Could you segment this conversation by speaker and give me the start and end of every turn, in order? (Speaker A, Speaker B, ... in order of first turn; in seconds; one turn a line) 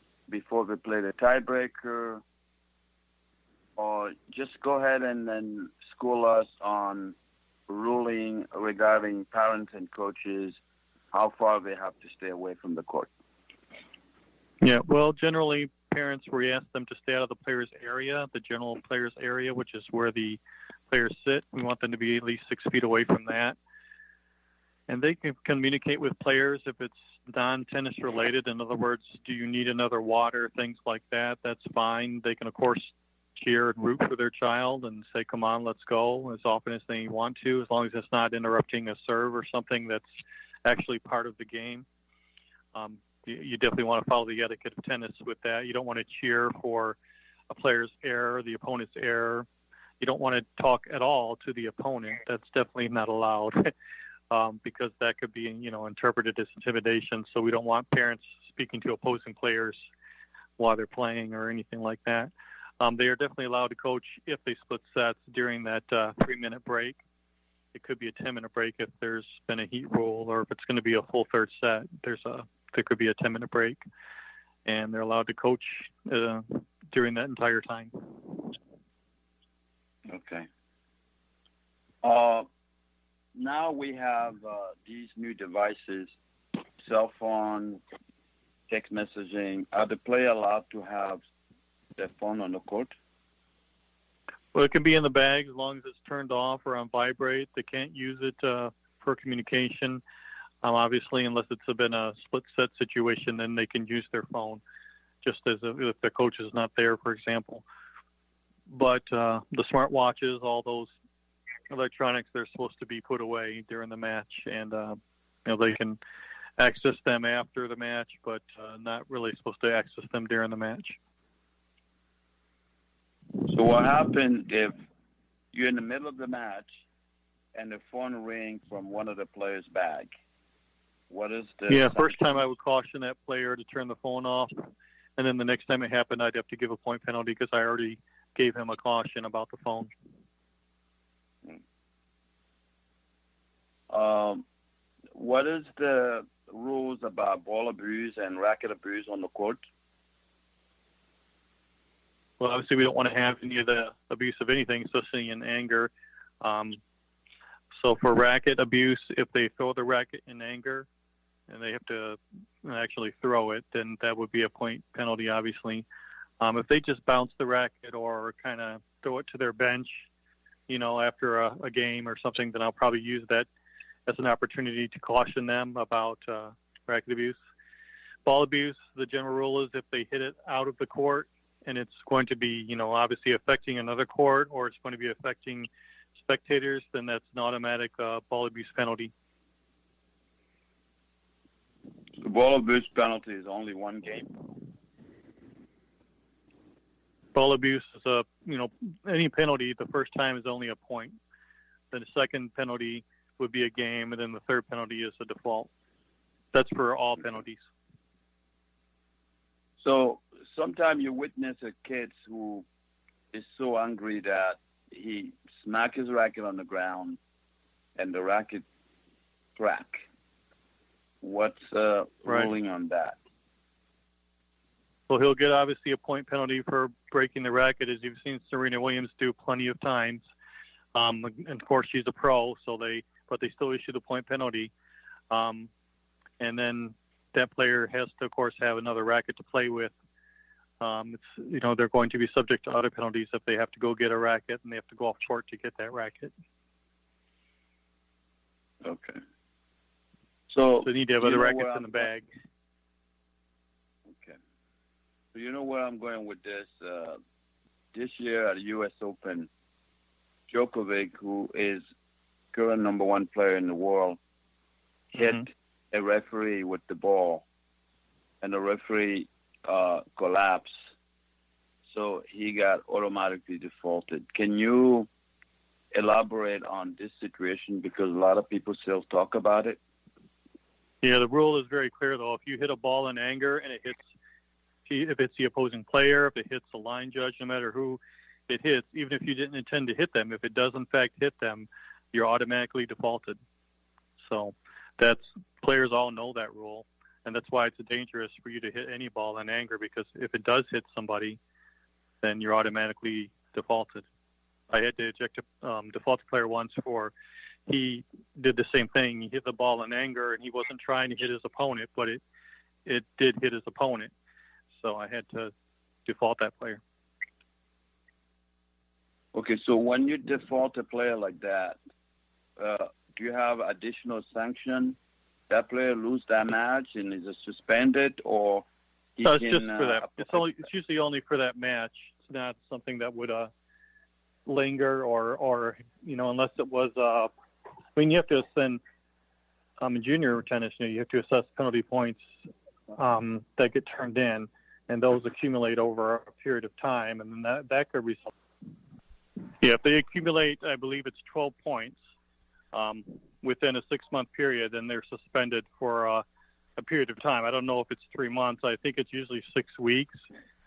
Speaker A: 0.3-2.2
Speaker A: 3.8-7.1
Speaker A: 7.7-10.6
Speaker A: 11.1-13.1
Speaker B: 14.6-23.6
Speaker B: 24.9-40.0
Speaker B: 40.6-41.9
Speaker B: 42.7-47.0
Speaker B: 47.5-49.5
Speaker B: 50.0-53.7
Speaker B: 54.3-59.8
Speaker B: 60.6-67.0
Speaker B: 67.7-73.8
Speaker B: 74.6-78.6
Speaker A: 80.1-80.5
Speaker A: 82.0-82.5
Speaker A: 83.3-86.1
Speaker A: 86.8-87.8
Speaker A: 88.7-91.2
Speaker A: 92.0-92.9
Speaker B: 94.5-100.0
Speaker B: 100.6-104.6
Speaker B: 105.2-107.6
Speaker B: 108.7-110.9
Speaker B: 111.7-116.0
Speaker B: 116.6-121.0
Speaker A: 123.4-124.7
Speaker A: 125.5-126.8
Speaker A: 127.5-130.1
Speaker A: 131.1-132.5
Speaker B: 131.7-139.9
Speaker A: 143.9-144.4
Speaker A: 145.1-149.6
Speaker B: 152.4-156.8
Speaker B: 157.8-160.9
Speaker B: 161.5-165.8
Speaker B: 166.4-170.1
Speaker B: 170.7-173.5
Speaker B: 174.1-177.4
Speaker B: 178.2-189.1
Speaker A: 192.2-194.3
Speaker B: 197.3-201.2
Speaker B: 201.9-205.7
Speaker B: 206.5-207.6
Speaker A: 209.8-212.7
Speaker A: 213.3-217.2
Speaker A: 217.9-218.6
Speaker A: 219.6-220.0
Speaker A: 221.2-223.2
Speaker B: 222.2-222.5
Speaker B: 225.1-230.2
Speaker B: 230.9-234.7
Speaker B: 235.3-235.7
Speaker B: 236.4-239.9
Speaker B: 240.8-246.3
Speaker A: 248.8-249.2
Speaker A: 250.5-252.1
Speaker B: 250.8-252.3
Speaker A: 254.1-254.4
Speaker A: 255.3-257.2
Speaker A: 257.9-259.5
Speaker A: 260.5-261.8
Speaker A: 262.5-264.2
Speaker A: 265.1-267.4
Speaker A: 268.4-270.8
Speaker A: 271.9-275.1
Speaker A: 275.9-279.8
Speaker B: 281.0-284.0
Speaker B: 284.9-293.4
Speaker B: 294.2-301.4
Speaker B: 302.2-304.0
Speaker B: 304.7-307.1
Speaker B: 307.7-312.2
Speaker B: 312.8-314.1
Speaker B: 314.8-315.5
Speaker B: 316.0-316.8
Speaker A: 319.3-321.8
Speaker A: 322.6-325.0
Speaker A: 325.5-328.6
Speaker A: 329.2-330.5
Speaker B: 329.2-333.5
Speaker B: 334.4-337.3
Speaker B: 337.9-338.8
Speaker B: 339.8-342.2
Speaker B: 342.9-348.3
Speaker B: 349.6-352.0
Speaker B: 352.7-356.2
Speaker B: 356.8-360.2